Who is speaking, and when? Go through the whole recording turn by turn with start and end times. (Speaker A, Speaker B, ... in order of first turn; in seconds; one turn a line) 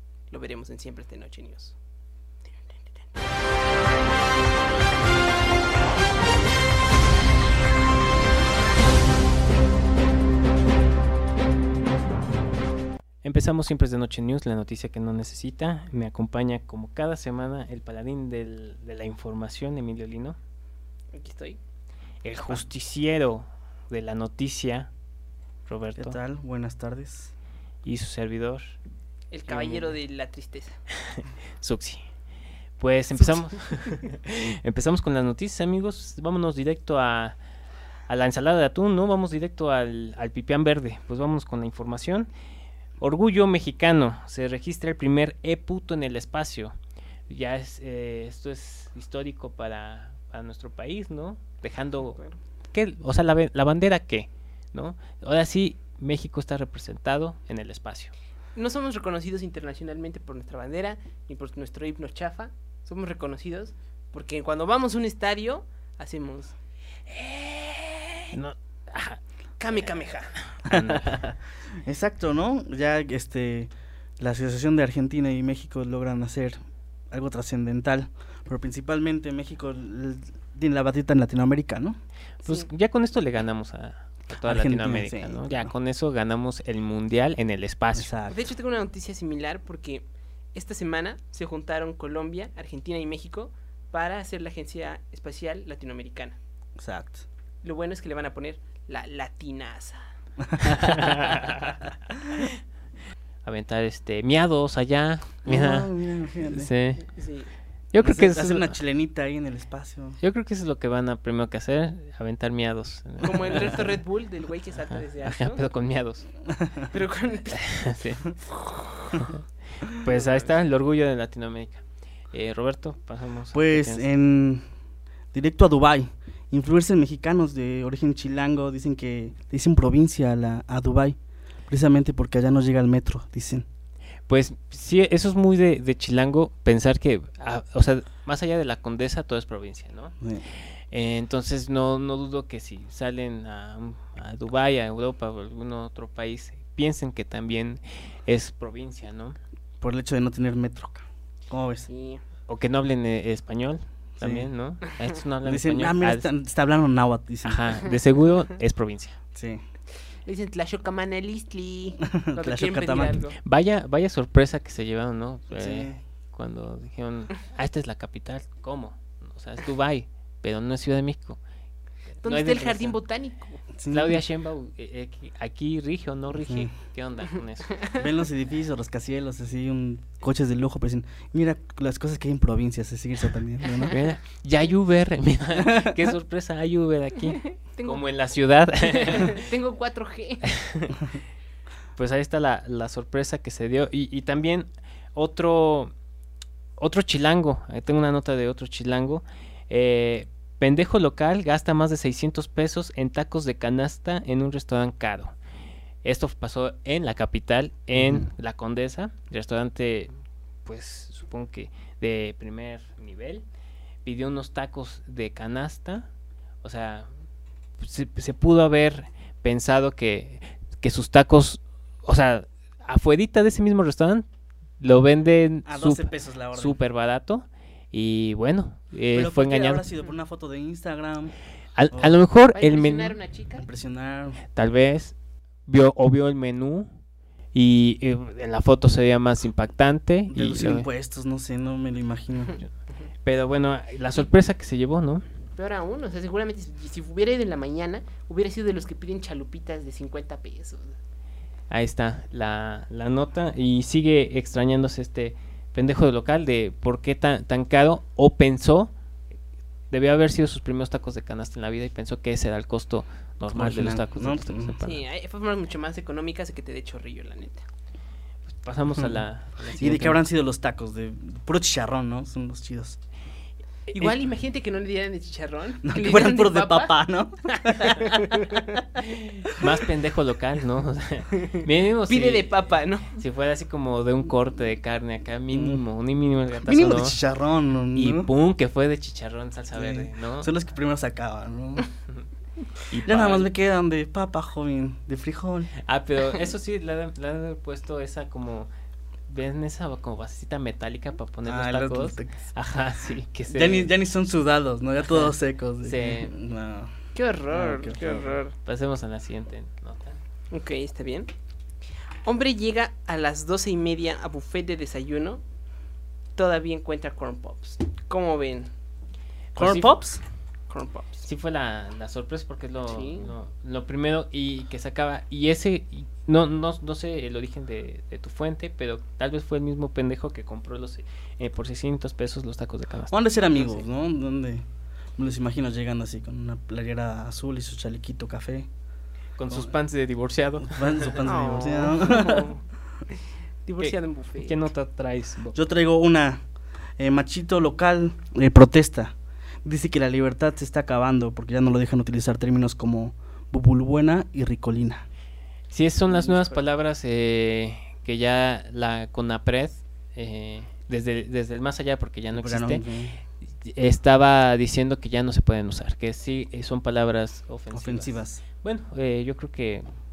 Speaker A: 0.3-1.8
Speaker A: 2.5-3.0
Speaker B: 13.2-20.4
Speaker A: 21.1-21.6
Speaker B: 22.2-24.9
Speaker B: 25.7-26.2
Speaker C: 26.0-27.3
Speaker B: 27.9-28.8
Speaker A: 29.3-30.8
Speaker B: 29.5-30.0
Speaker B: 31.6-32.0
Speaker B: 32.8-37.4
Speaker B: 38.1-42.3
Speaker B: 43.0-46.7
Speaker B: 47.3-52.2
Speaker B: 52.7-58.1
Speaker A: 58.6-66.6
Speaker A: 67.1-68.3
Speaker B: 68.3-69.2
Speaker A: 69.6-70.5
Speaker B: 70.6-71.2
Speaker C: 70.7-76.6
Speaker C: 77.1-82.0
Speaker B: 82.4-88.1
Speaker C: 84.4-85.7
Speaker C: 87.9-88.4
Speaker A: 88.3-96.4
Speaker C: 96.8-97.2
Speaker A: 97.6-100.0
Speaker C: 100.4-101.3
Speaker B: 100.8-101.7
Speaker B: 103.5-107.1
Speaker C: 105.5-106.7
Speaker A: 107.0-107.5
Speaker B: 107.9-108.8
Speaker C: 108.0-110.2
Speaker B: 110.2-114.0
Speaker A: 113.2-115.7
Speaker B: 114.9-116.3
Speaker C: 116.5-116.9
Speaker A: 116.9-117.7
Speaker B: 117.6-118.5
Speaker B: 120.0-124.1
Speaker C: 123.5-124.6
Speaker C: 125.3-131.2
Speaker C: 131.7-133.7
Speaker B: 134.3-140.1
Speaker C: 140.2-140.5
Speaker B: 140.9-149.4
Speaker C: 149.8-151.9
Speaker A: 151.9-152.2
Speaker B: 152.5-156.3
Speaker C: 154.2-154.5
Speaker C: 155.4-157.7
Speaker B: 157.4-159.2
Speaker C: 159.3-159.6
Speaker A: 160.2-163.4
Speaker C: 162.1-163.2
Speaker B: 163.4-171.4
Speaker C: 165.6-166.0
Speaker B: 172.2-173.0
Speaker A: 172.2-173.6
Speaker C: 173.8-174.2
Speaker B: 173.9-177.9
Speaker C: 176.4-176.7
Speaker C: 177.9-184.0
Speaker B: 183.9-189.5
Speaker C: 185.6-186.0
Speaker A: 187.7-188.0
Speaker A: 188.9-190.5
Speaker B: 190.5-191.0
Speaker B: 192.0-195.9
Speaker B: 196.8-205.3
Speaker B: 206.0-210.1
Speaker C: 208.0-208.3
Speaker B: 210.7-213.4
Speaker B: 214.1-216.1
Speaker B: 216.6-217.1
Speaker B: 217.8-224.3
Speaker B: 224.8-229.9
Speaker C: 225.7-226.8
Speaker C: 229.1-231.3
Speaker B: 231.8-233.2
Speaker C: 231.9-232.2
Speaker A: 232.6-233.7
Speaker C: 233.6-234.4
Speaker B: 234.5-235.1
Speaker B: 235.7-236.9
Speaker B: 237.5-240.9
Speaker C: 240.3-242.6
Speaker B: 243.2-245.2
Speaker A: 245.6-251.0
Speaker B: 251.7-258.9
Speaker B: 259.9-265.0
Speaker C: 263.5-264.8
Speaker A: 264.8-267.6
Speaker B: 268.5-270.2
Speaker C: 269.0-273.0
Speaker A: 273.9-276.9
Speaker C: 275.8-278.2
Speaker A: 277.7-278.8
Speaker B: 279.1-287.2
Speaker A: 281.3-283.2
Speaker C: 285.5-285.8
Speaker C: 286.7-288.3
Speaker B: 288.0-290.5
Speaker C: 289.8-291.9
Speaker B: 292.9-293.5
Speaker C: 293.1-295.7
Speaker B: 295.9-298.7
Speaker B: 299.3-303.9
Speaker C: 301.4-302.5
Speaker C: 303.5-306.9
Speaker B: 305.8-306.3
Speaker A: 307.1-308.6
Speaker C: 307.5-308.4
Speaker B: 308.6-310.2
Speaker A: 310.5-311.3
Speaker A: 312.2-315.4
Speaker A: 316.4-318.7
Speaker B: 319.6-319.9
Speaker C: 319.6-320.2
Speaker A: 320.7-321.3
Speaker B: 321.2-333.2
Speaker A: 322.9-323.3
Speaker C: 333.1-334.6
Speaker C: 335.2-338.7
Speaker B: 339.4-341.2
Speaker C: 340.6-342.5
Speaker A: 341.2-342.6
Speaker A: 343.7-344.6
Speaker B: 343.8-345.6
Speaker C: 345.6-346.4
Speaker C: 347.0-349.1
Speaker C: 349.6-355.1
Speaker B: 355.7-362.8
Speaker A: 356.1-356.6
Speaker C: 362.3-363.2
Speaker B: 363.6-369.8
Speaker C: 367.7-368.4